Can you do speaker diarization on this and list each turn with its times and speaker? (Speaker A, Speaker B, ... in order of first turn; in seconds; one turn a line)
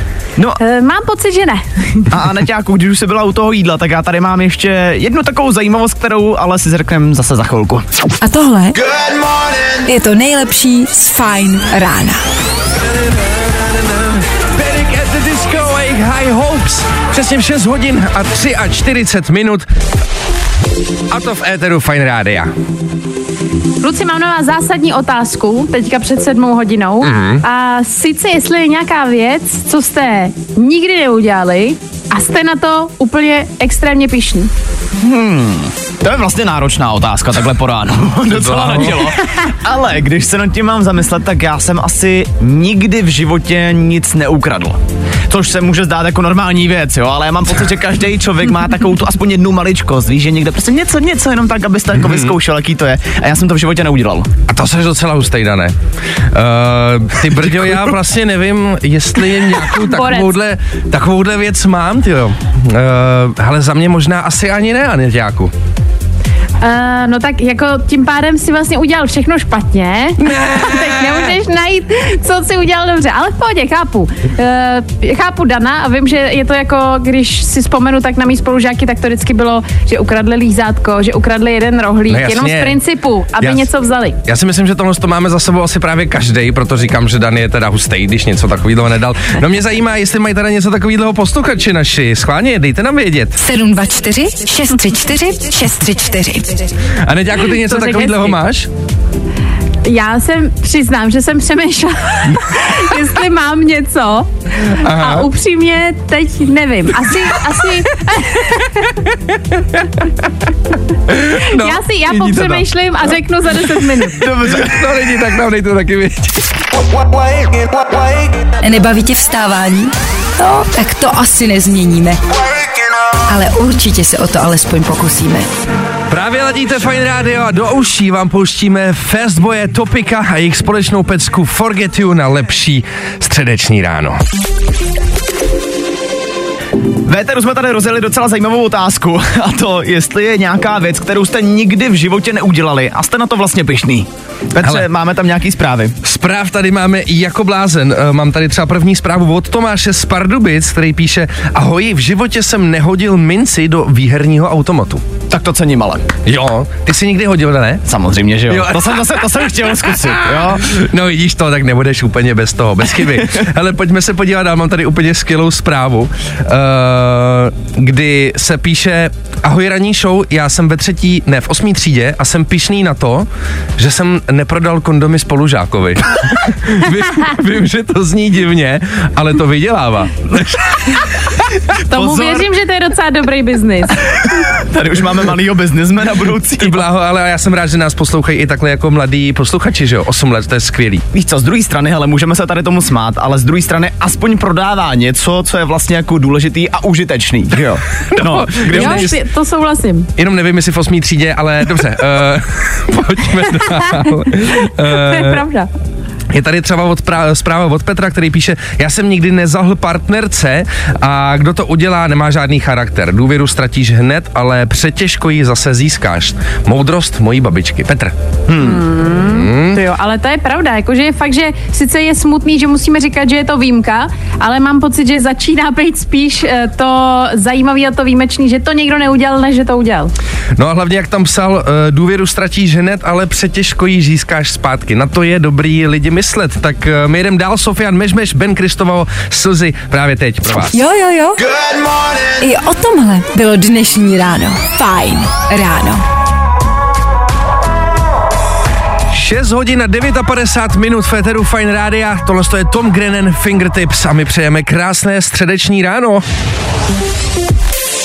Speaker A: 0.6-2.1
Speaker B: 2.1-7.8
Speaker C: 8.2-8.8
Speaker C: 9.8-12.2
Speaker D: 12.8-19.6
Speaker D: 21.1-22.5
Speaker A: 23.8-34.5
Speaker D: 27.0-27.4
Speaker B: 35.0-54.3
Speaker D: 38.3-39.1
Speaker D: 52.0-52.3
Speaker D: 54.5-55.7
Speaker D: 56.3-65.5
Speaker A: 59.8-60.3
Speaker A: 66.6-84.2
Speaker D: 70.2-71.3
Speaker D: 82.1-82.8
Speaker D: 84.2-93.4
Speaker C: 93.4-96.7
Speaker D: 97.0-98.7
Speaker A: 97.6-98.3
Speaker A: 99.8-109.0
Speaker D: 104.8-105.3
Speaker D: 111.1-112.7
Speaker A: 111.3-114.2
Speaker B: 114.2-114.8
Speaker D: 114.2-116.5
Speaker C: 118.6-122.2
Speaker C: 123.3-125.5
Speaker D: 126.1-134.2
Speaker B: 137.0-145.9
Speaker D: 146.0-155.0
Speaker B: 155.3-156.1
Speaker D: 156.2-157.8
Speaker B: 157.8-160.8
Speaker D: 158.5-159.2
Speaker D: 160.2-181.0
Speaker B: 181.8-182.5
Speaker A: 181.9-184.0
Speaker B: 184.4-186.8
Speaker D: 186.6-191.0
Speaker B: 191.1-199.1
Speaker D: 198.2-199.1
Speaker A: 198.7-200.1
Speaker D: 200.2-205.4
Speaker A: 203.7-205.7
Speaker D: 206.3-218.1
Speaker B: 218.5-218.8
Speaker A: 218.6-230.1
Speaker D: 219.3-219.8
Speaker D: 230.6-240.8
Speaker C: 240.7-241.4
Speaker C: 242.4-246.0
Speaker D: 249.1-256.2